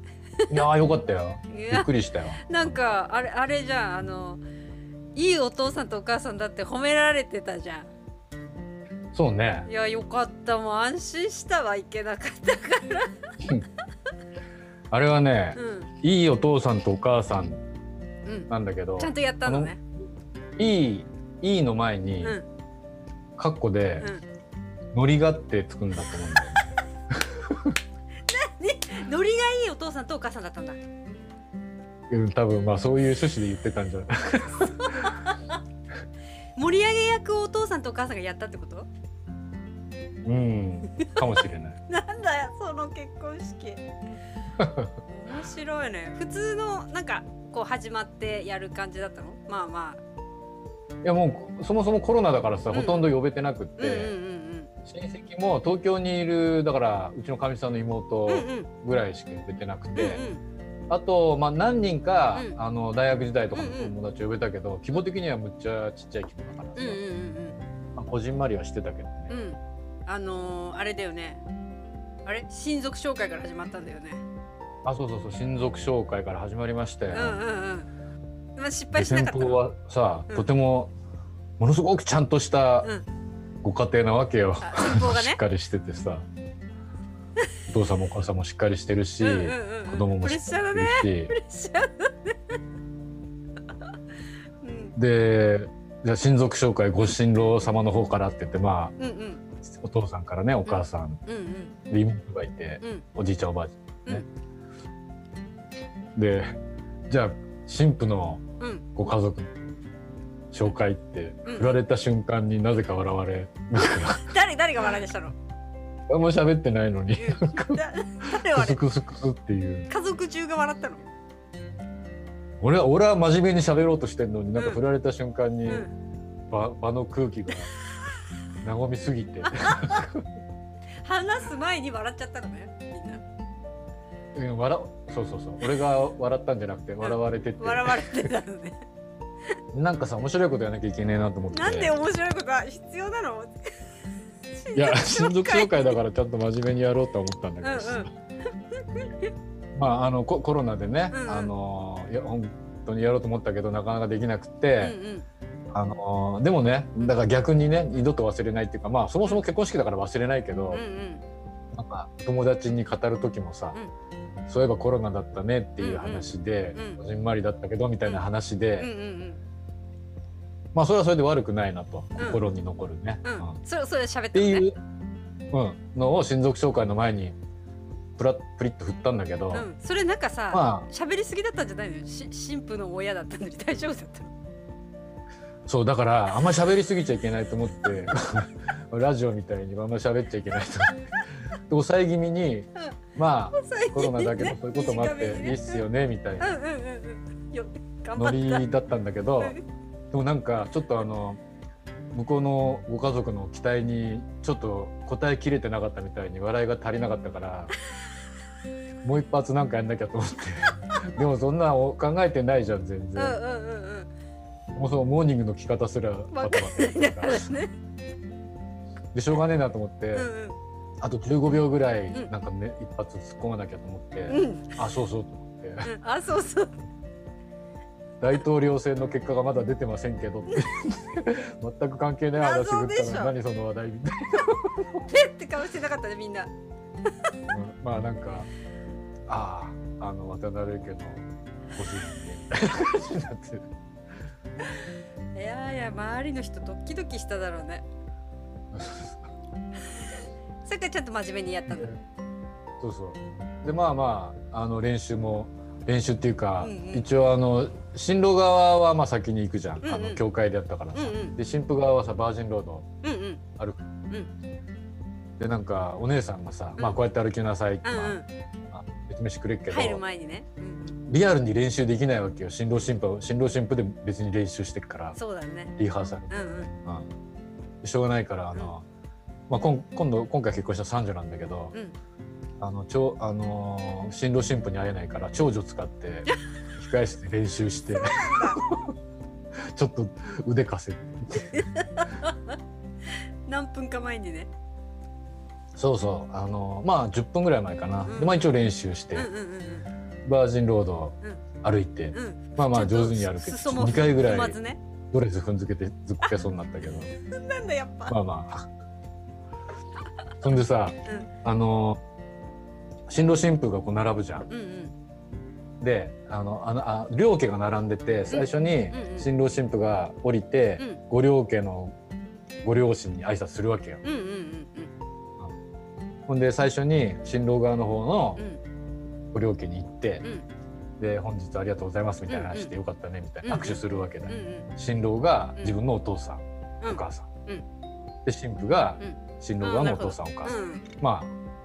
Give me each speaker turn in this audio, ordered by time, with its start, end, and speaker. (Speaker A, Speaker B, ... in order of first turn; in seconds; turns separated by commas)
Speaker A: 0.5-2.7, Speaker B: 1.5-1.9, Speaker B: 2.4-4.4, Speaker B: 5.1-7.9, Speaker A: 9.1-9.7, Speaker B: 9.7-13.3, Speaker A: 14.9-17.6, Speaker B: 15.6-15.9, Speaker B: 18.2-19.8, Speaker A: 18.5-19.7, Speaker A: 20.6-22.4, Speaker A: 23.4-24.1, Speaker A: 24.9-26.7, Speaker A: 27.4-27.7, Speaker B: 28.3-30.8, Speaker A: 32.1-34.7, Speaker B: 34.8-35.3, Speaker B: 36.5-38.9, Speaker A: 40.2-41.8, Speaker B: 41.9-43.8, Speaker A: 44.6-44.9, Speaker B: 45.1-50.0, Speaker A: 51.0-54.1, Speaker B: 52.7-53.1, Speaker B: 53.8-54.7, Speaker A: 54.9-60.2, Speaker B: 58.3-58.7, Speaker B: 59.9-60.4, Speaker A: 60.9-67.0, Speaker B: 63.5-63.9, Speaker B: 66.8-67.6, Speaker A: 67.9-69.3, Speaker B: 69.3-71.4, Speaker B: 72.2-74.2, Speaker A: 74.8-77.4, Speaker B: 77.1-77.9, Speaker B: 78.6-79.6, Speaker A: 78.9-80.9, Speaker A: 81.6-82.9, Speaker A: 83.6-86.2, Speaker B: 84.6-85.4, Speaker A: 87.7-91.3, Speaker B: 89.2-92.5, Speaker B: 94.6-95.0, Speaker A: 95.0-98.9, Speaker B: 99.0-99.4, Speaker A: 99.6-101.2, Speaker B: 100.7-101.8, Speaker A: 101.9-104.2, Speaker A: 106.2-106.5, Speaker A: 107.1-108.4, Speaker B: 108.6-108.9, Speaker A: 109.0-109.5, Speaker A: 110.5-114.3, Speaker B: 111.5-111.7, Speaker B: 113.8-115.3, Speaker A: 116.1-117.8, Speaker B: 117.1-118.8, Speaker A: 118.5-119.9, Speaker B: 119.9-121.0, Speaker A: 122.6-125.8, Speaker B: 124.5-124.8, Speaker A: 126.5-127.7, Speaker A: 128.6-130.2, Speaker B: 129.4-130.0, Speaker B: 131.0-133.2, Speaker A: 134.3-138.3, Speaker B: 137.0-138.8, Speaker A: 139.7-141.9, Speaker B: 141.5-143.7, Speaker B: 144.5-146.0, Speaker A: 144.7-148.1, Speaker B: 147.6-148.1, Speaker B: 148.7-149.3, Speaker A: 149.8-154.9, Speaker B: 151.1-151.5, Speaker B: 154.8-155.3, Speaker A: 155.7-160.8, Speaker B: 160.7-161.2, Speaker A: 161.7-163.8, Speaker A: 164.5-168.9, Speaker B: 165.8-167.0, Speaker B: 168.8-169.4, Speaker A: 170.7-173.6, Speaker B: 172.2-172.4, Speaker B: 173.2-174.7, Speaker A: 174.3-174.8, Speaker A: 175.5-177.3, Speaker A: 178.2-179.7, Speaker B: 179.5-184.3, Speaker A: 180.5-180.9, Speaker A: 185.7-196.6, Speaker B: 193.5-195.8, Speaker B: 196.4-198.7, Speaker A: 198.1-199.6, Speaker A: 200.1-201.4, Speaker A: 202.1-207.7, Speaker A: 209.0-213.4, Speaker B: 213.2-214.1, Speaker A: 214.7-217.5, Speaker B: 216.3-217.7, Speaker A: 219.1-220.3, Speaker B: 220.1-220.6, Speaker A: 221.0-225.9, Speaker B: 224.3-224.8, Speaker B: 225.8-226.8, Speaker A: 228.2-234.8, Speaker B: 232.3-233.3, Speaker B: 235.0-236.5, Speaker A: 237.5-238.5, Speaker A: 239.3-243.6, Speaker B: 245.3-247.8, Speaker A: 248.7-249.2, Speaker B: 250.6-251.9, Speaker A: 251.7-252.0, Speaker A: 252.8-262.9, Speaker B: 256.6-257.0, Speaker B: 259.8-260.2, Speaker B: 260.9-261.4, Speaker B: 263.0-263.4, Speaker A: 265.4-268.2, Speaker B: 267.8-268.2, Speaker A: 268.7-270.0, Speaker B: 269.7-271.0, Speaker A: 271.1-275.2, Speaker B: 275.1-275.7, Speaker A: 275.8-277.1, Speaker B: 276.3-276.7, Speaker A: 277.8-278.8, Speaker A: 279.5-281.7, Speaker A: 282.6-288.8, Speaker B: 287.9-288.6, Speaker A: 289.7-291.6, Speaker B: 291.5-292.5, Speaker B: 293.5-294.5, Speaker A: 295.7-299.3, Speaker B: 298.1-298.5, Speaker B: 299.1-299.9, Speaker A: 300.2-304.6, Speaker B: 302.1-304.8, Speaker A: 305.1-307.1, Speaker B: 307.2-308.1, Speaker A: 308.1-308.6, Speaker A: 310.4-312.0, Speaker A: 313.1-314.5, Speaker B: 314.5-314.9, Speaker A: 315.8-321.9, Speaker B: 318.3-319.3, Speaker A: 322.6-324.0, Speaker B: 324.0-324.9, Speaker A: 326.3-328.4, Speaker A: 329.3-330.2, Speaker A: 331.0-337.3, Speaker B: 332.3-332.7, Speaker B: 333.4-334.7, Speaker B: 336.8-337.6, Speaker A: 338.2-341.3, Speaker B: 339.0-340.9